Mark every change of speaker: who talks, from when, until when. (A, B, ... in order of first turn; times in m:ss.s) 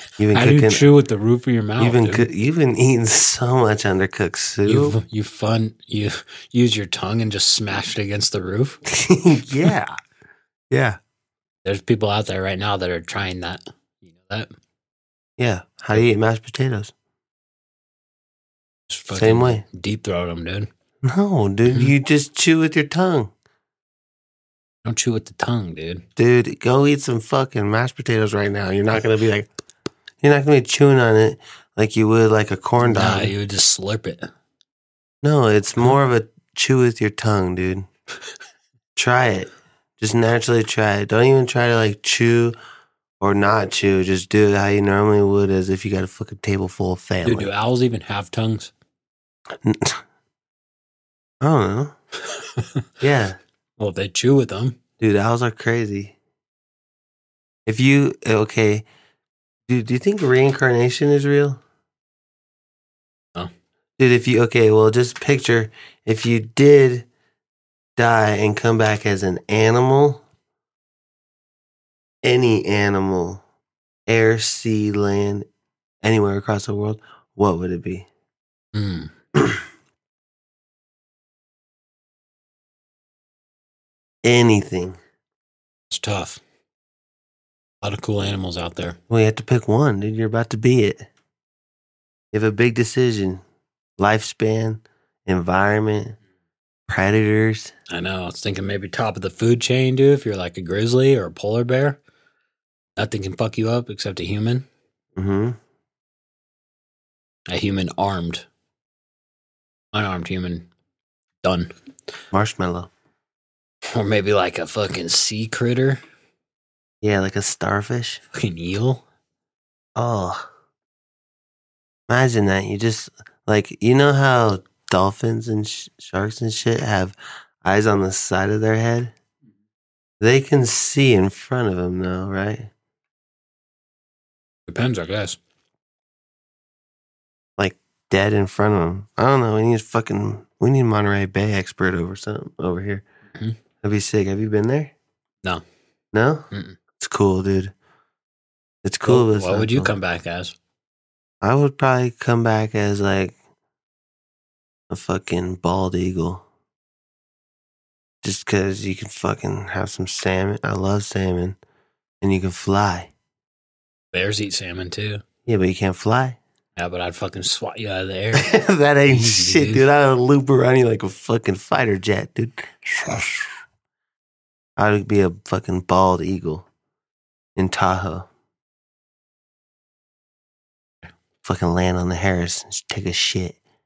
0:00.2-0:00.8 A
0:00.3-0:02.2 B
0:01.8-0:05.0 A
0:04.6-0:08.8 B
0:08.9-0:10.0 A
0:10.7-0:11.0 A
0:11.6-0:14.5 B
0:15.4-0:16.9 A
0:18.9-0:20.7 B
0:19.1-0:19.6 A
0:21.0-0:23.3 A
0:24.8-0:26.0 B
0:26.2-0:29.5 A
0:30.2-0:33.3 A
0:32.8-0:34.3 B
0:35.2-0:37.9 A
0:39.0-0:42.6 A
0:43.2-0:47.5 A
0:47.2-0:48.7 B
0:49.6-0:50.0 A
0:51.4-0:51.9 A
0:53.0-0:53.4 A
0:53.8-0:54.8 B
0:55.0-0:56.2 A
0:57.6-0:58.8 A
0:59.7-1:01.6 A
1:04.0-1:07.1 A
1:08.0-1:10.2 A
1:12.2-1:13.4 A
1:14.1-1:15.5 A
1:16.0-1:18.1 A
1:18.7-1:19.1 B
1:24.2-1:25.0 A
1:25.9-1:26.4 B
1:27.8-1:29.0 B
1:29.1-1:31.1 A
1:32.3-1:33.4 A
1:34.0-1:36.2 A
1:36.9-1:37.7 A
1:37.9-1:42.0 B
1:43.0-1:44.7 B
1:45.2-1:45.6 A
1:47.5-1:48.4 B
1:49.9-1:50.7 B
1:51.4-1:51.7 B
1:52.3-1:52.9 A
1:53.9-1:56.0 B
1:57.0-1:58.2 A
1:58.3-1:59.0 B
2:00.0-2:00.5 A
2:02.1-2:09.1 A
2:10.2-2:12.7 A
2:14.7-2:15.4 B
2:17.6-2:23.0 A
2:23.8-2:24.9 A
2:26.1-2:27.7 A
2:26.5-2:26.8 B
2:28.8-2:29.9 A
2:29.0-2:30.5 B
2:31.4-2:33.4 A
2:34.9-2:36.4 A
2:38.2-2:41.6 A
2:42.2-2:43.1 A
2:44.1-2:45.2 B
2:45.4-2:46.4 A
2:46.8-2:48.5 B
2:48.4-2:53.5 A
2:49.1-2:49.8 B
2:54.8-2:56.7 A
2:57.6-2:58.3 A
3:01.4-3:03.6 A